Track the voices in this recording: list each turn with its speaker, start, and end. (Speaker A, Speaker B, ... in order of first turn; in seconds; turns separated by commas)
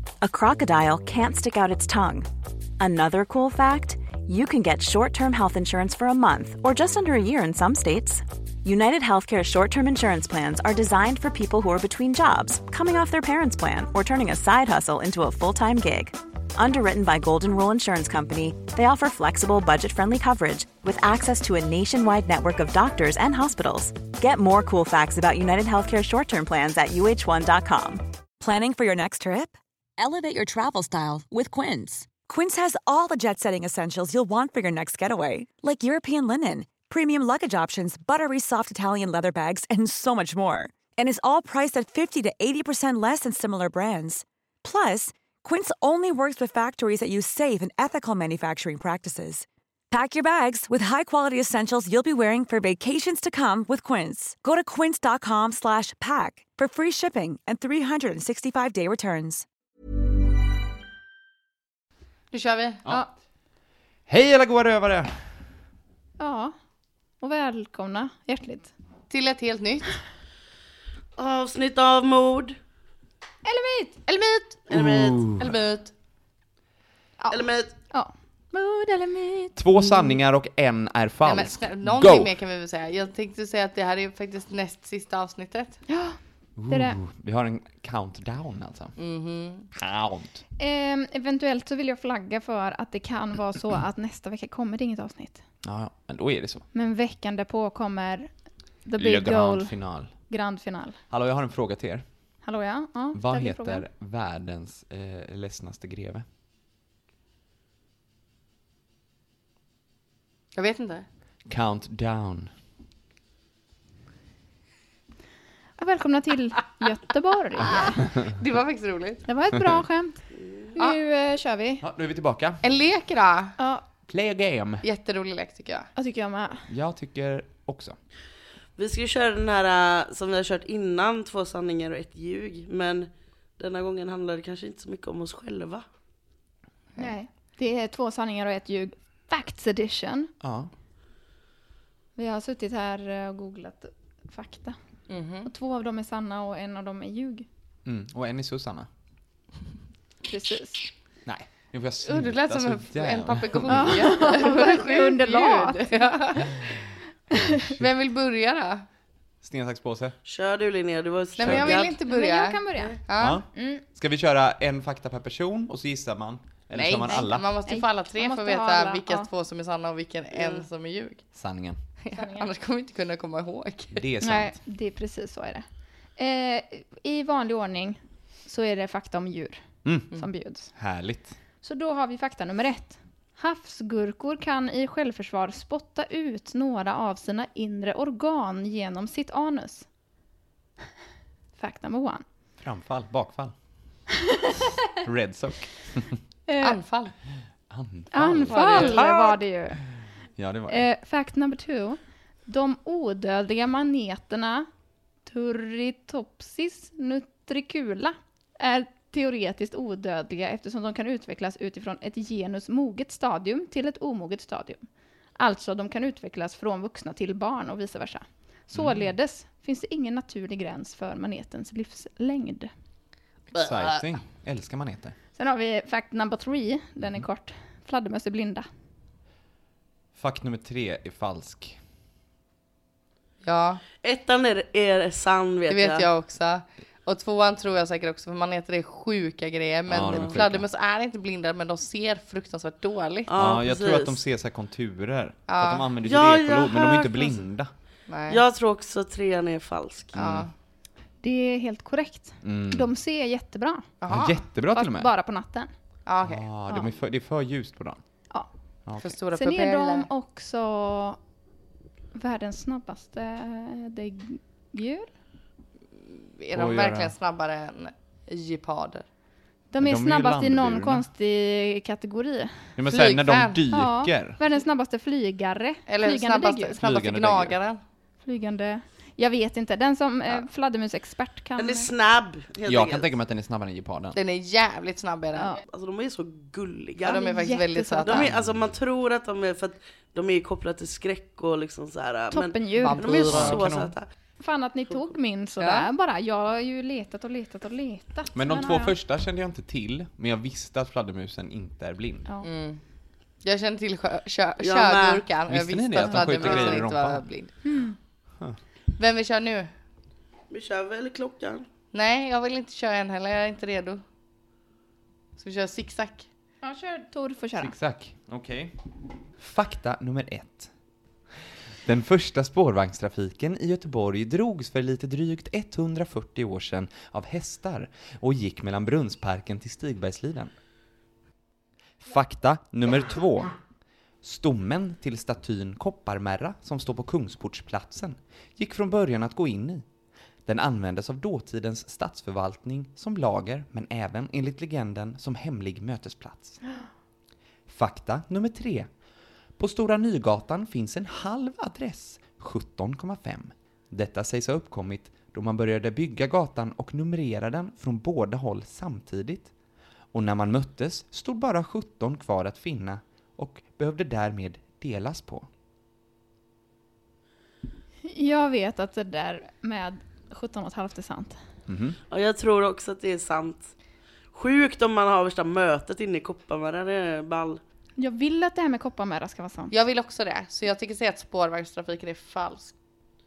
Speaker A: 0.2-28.0, Speaker B: 28.4-59.4, Speaker C: 62.3-62.8, Speaker D: 64.1-65.6, Speaker E: 66.2-66.5, Speaker E: 67.2-68.7, Speaker C: 69.1-70.0, Speaker F: 71.2-72.6, Speaker E: 73.4-74.0, Speaker C: 74.1-74.6, Speaker F: 74.7-75.3, Speaker D: 74.7-75.5, Speaker C: 75.3-75.9, Speaker E: 77.2-79.6, Speaker F: 77.3-77.7, Speaker D: 79.6-82.3, Speaker C: 81.2-85.8, Speaker E: 85.9-87.0, Speaker D: 86.5-89.0, Speaker C: 89.0-89.7, Speaker D: 89.7-90.4, Speaker E: 90.6-95.5, Speaker D: 95.6-96.7, Speaker E: 96.7-101.0, Speaker D: 99.0-100.2, Speaker D: 101.1-102.4, Speaker E: 102.4-103.8, Speaker D: 103.1-106.2, Speaker C: 110.5-111.0, Speaker D: 111.5-112.5, Speaker E: 115.8-118.0, Speaker C: 118.0-119.2, Speaker E: 119.2-121.8, Speaker F: 120.4-120.7, Speaker D: 121.8-122.6, Speaker C: 122.6-123.5, Speaker E: 123.6-123.8, Speaker D: 124.1-124.8, Speaker C: 124.8-125.9, Speaker E: 126.0-126.7, Speaker D: 126.7-128.0, Speaker F: 128.8-135.8, Speaker E: 137.0-140.3, Speaker D: 140.4-140.7, Speaker E: 142.2-147.4, Speaker C: 145.1-145.5, Speaker D: 147.8-148.9, Speaker E: 150.3-150.8, Speaker D: 151.2-154.3, Speaker C: 152.0-156.6, Speaker E: 153.7-156.5, Speaker C: 157.7-158.8, Speaker D: 159.4-160.2, Speaker F: 160.2-162.0, Speaker C: 161.3-163.4, Speaker D: 161.4-161.8, Speaker E: 161.9-163.8, Speaker D: 163.2-167.5, Speaker C: 166.7-174.1, Speaker E: 167.1-169.3, Speaker F: 170.3-170.6, Speaker D: 171.3-171.8, Speaker E: 172.1-172.5, Speaker D: 173.9-174.6, Speaker E: 174.2-180.7, Speaker D: 179.8-180.1, Speaker D: 180.7-181.4, Speaker E: 181.6-189.9, Speaker E: 191.6-192.2, Speaker D: 192.6-194.0, Speaker D: 195.0-196.2, Speaker E: 196.5-196.8, Speaker C: 196.6-197.2, Speaker D: 197.7-199.6, Speaker E: 198.1-199.9, Speaker C: 198.5-199.0, Speaker D: 200.2-200.9, Speaker E: 200.7-204.7, Speaker E: 205.2-222.7, Speaker D: 218.7-219.1, Speaker C: 223.5-224.0, Speaker D: 223.5-225.2, Speaker E: 225.3-228.7, Speaker D: 230.1-231.8, Speaker C: 233.4-233.8, Speaker F: 234.0-236.1, Speaker C: 235.7-243.3, Speaker D: 239.9-240.7, Speaker F: 243.3-244.2, Speaker D: 243.3-247.7, Speaker C: 245.5-245.9, Speaker F: 246.0-247.5, Speaker C: 248.1-248.4, Speaker F: 248.3-250.2, Speaker D: 250.1-250.5, Speaker C: 250.1-250.5, Speaker E: 251.2-253.9, Speaker D: 252.4-252.9, Speaker C: 254.0-254.4, Speaker D: 254.1-255.1, Speaker E: 254.7-255.7, Speaker C: 256.1-256.5, Speaker D: 256.2-258.3, Speaker D: 258.8-259.2, Speaker C: 259.0-260.1, Speaker E: 259.1-261.2, Speaker E: 262.1-265.1, Speaker C: 265.9-269.1, Speaker D: 266.5-267.1, Speaker E: 269.7-272.8, Speaker D: 269.8-271.1, Speaker D: 272.8-274.4, Speaker C: 272.9-273.6, Speaker E: 273.7-276.8, Speaker C: 275.9-277.8, Speaker D: 276.8-277.6, Speaker E: 278.2-281.9, Speaker F: 281.6-283.1, Speaker D: 282.6-284.2, Speaker C: 284.1-285.6, Speaker F: 285.7-287.3, Speaker E: 287.1-288.3, Speaker C: 287.1-288.3, Speaker F: 288.0-294.1, Speaker D: 288.2-288.7, Speaker E: 292.3-293.0, Speaker C: 292.8-293.7, Speaker D: 293.3-293.9, Speaker E: 294.4-298.9, Speaker C: 295.6-295.9, Speaker D: 298.3-302.3, Speaker C: 302.4-302.8, Speaker C: 303.4-307.5, Speaker F: 304.6-305.3, Speaker D: 305.5-307.6, Speaker F: 306.0-306.8, Speaker E: 307.6-308.0, Speaker C: 309.0-309.7, Speaker F: 310.5-311.7, Speaker C: 311.9-314.0, Speaker C: 315.4-316.3, Speaker E: 316.6-317.7, Speaker D: 317.6-318.8, Speaker D: 319.3-320.8, Speaker D: 321.8-330.5, Speaker D: 332.0-333.6, Speaker D: 334.2-339.9, Speaker D: 340.4-346.6, Speaker D: 347.7-348.9, Speaker D: 349.5-359.5, Speaker D: 360.1-365.5, Speaker E: 368.0-371.4, Speaker D: 371.7-372.0, Speaker F: 372.1-373.8, Speaker F: 374.3-377.6, Speaker E: 378.0-379.7, Speaker C: 379.7-382.7